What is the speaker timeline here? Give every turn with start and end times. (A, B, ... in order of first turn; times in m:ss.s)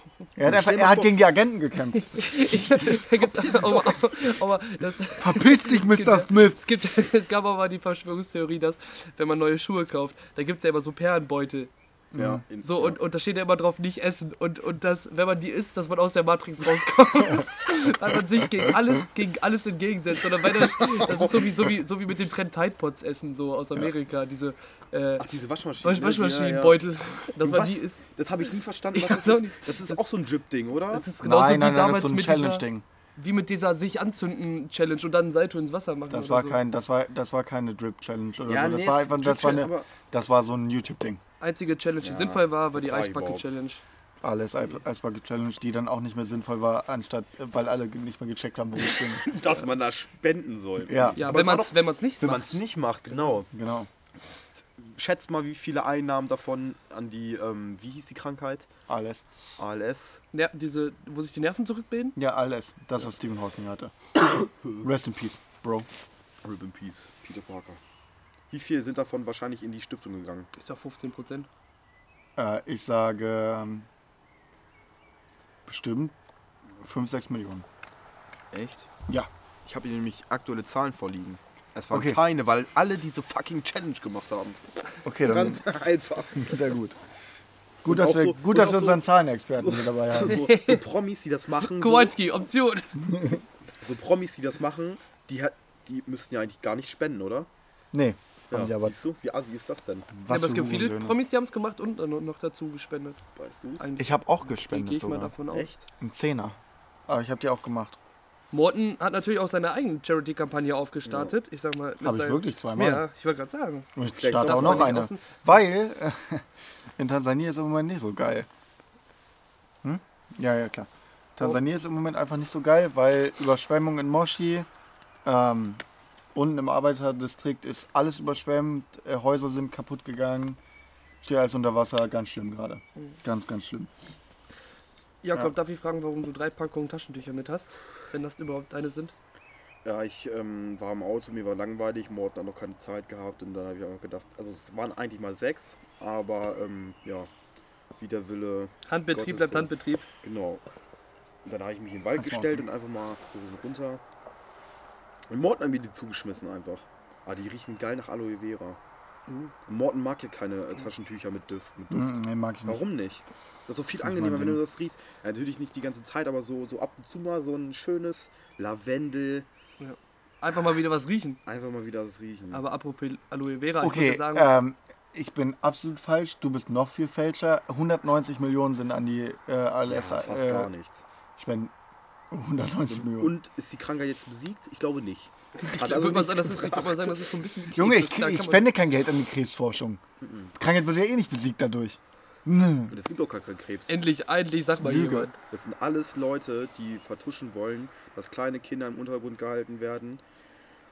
0:00.4-0:02.4 A
0:00.4-0:01.2 B
0:02.1-0:11.7 C
0:02.9-0:04.1 B
0:05.2-0:06.6 A
0:12.1-0:12.4 A
0:12.2-0:13.0 B
0:12.6-0:25.3 C
0:21.1-0:21.4 B
0:25.2-0:26.9 B
0:25.8-0:28.0 C
0:27.4-0:31.1 B
0:28.9-0:30.0 C
0:30.9-0:32.6 C
0:31.2-0:32.8 A
0:33.2-0:36.6 C
0:36.1-0:41.2 A
0:38.4-0:39.9 B
0:41.4-0:43.8 C
0:42.0-0:43.5 B
0:44.2-0:49.4 A
0:49.0-0:53.5 B
0:50.9-0:51.2 A
0:51.2-0:52.6 C
0:53.5-0:53.9 A
0:54.8-0:58.7 B
0:58.9-0:59.2 A
0:59.6-1:00.2 B
1:00.3-1:02.2 C
1:02.2-1:05.9 A
1:06.4-1:07.8 B
1:08.5-1:10.5 B
1:10.6-1:11.5 C
1:12.4-1:13.9 A
1:15.7-1:16.2 A
1:16.8-1:17.7 A
1:18.5-1:18.9 B
1:19.6-1:24.6 B
1:21.9-1:22.2 A
1:25.0-1:25.6 A
1:25.2-1:26.6 B
1:26.4-1:27.0 A
1:27.8-1:30.4 A
1:27.8-1:29.0 B
1:29.6-1:32.2 B
1:30.2-1:30.8 C
1:31.6-1:33.1 C
1:33.0-1:33.4 A
1:33.8-1:37.5 B
1:37.9-1:39.0 A
1:38.5-1:40.1 B
1:40.1-1:41.2 A
1:40.3-1:43.2 C
1:43.4-1:43.9 B
1:43.8-1:45.7 C
1:44.0-1:45.3 A
1:45.5-1:45.9 B
1:46.0-1:48.0 A
1:48.5-1:53.9 C
1:51.0-1:51.3 B
1:52.0-1:53.0 A
1:54.0-1:56.5 A
1:54.1-1:55.0 B
1:54.4-1:55.3 C
1:57.0-1:58.5 A
1:59.8-2:04.7 A
2:05.2-2:05.8 A
2:06.3-2:10.6 A
2:11.2-2:13.9 A
2:15.2-2:19.1 C
2:19.8-2:27.3 B
2:28.0-2:29.7 B
2:28.9-2:30.1 C
2:30.2-2:30.6 B
2:31.4-2:34.0 B
2:32.2-2:32.6 A
2:35.3-2:38.8 B
2:39.3-2:39.5 C
2:39.7-2:49.5 B
2:41.9-2:42.8 A
2:44.0-2:44.6 A
2:49.8-2:51.4 C
2:51.5-2:52.6 B
2:52.5-2:54.6 C
2:53.8-3:00.7 A
2:59.9-3:01.0 B
3:01.4-3:01.7 A
3:02.3-3:03.4 A
3:02.9-3:07.2 B
3:05.6-3:08.6 C
3:07.7-3:10.0 A
3:10.2-3:10.5 B
3:10.6-3:13.0 A
3:12.9-3:14.0 B
3:13.9-3:15.4 C
3:14.8-3:15.3 A
3:15.5-3:20.2 B